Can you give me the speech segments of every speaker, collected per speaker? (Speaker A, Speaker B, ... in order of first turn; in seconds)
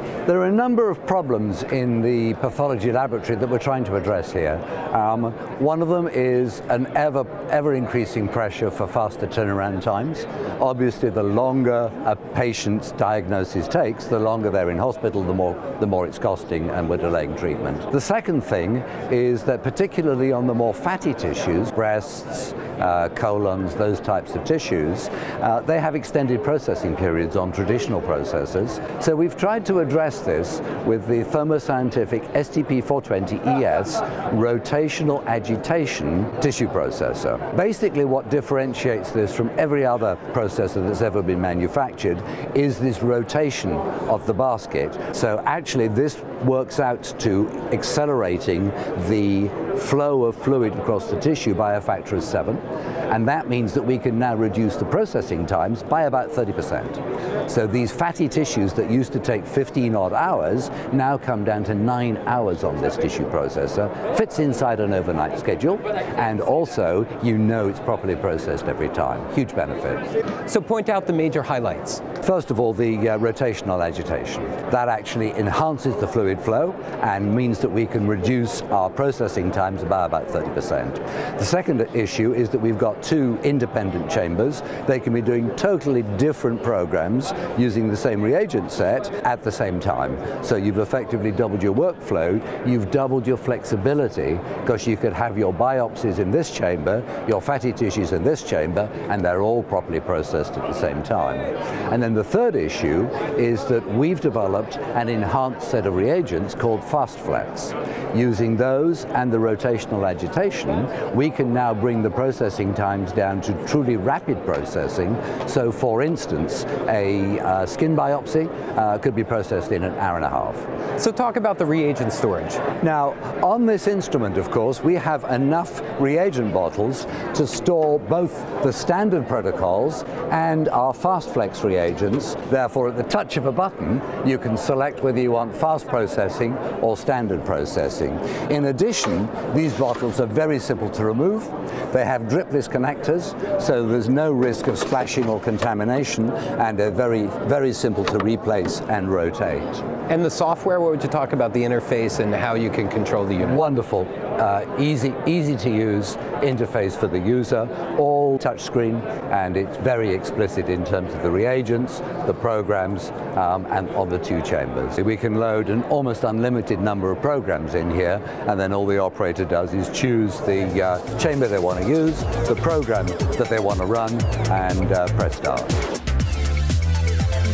Speaker A: 0.3-70.0, 72.2-120.7, 122.8-149.8, 153.5-175.7
Speaker B: 70.5-72.0, 121.0-122.6, 150.1-153.6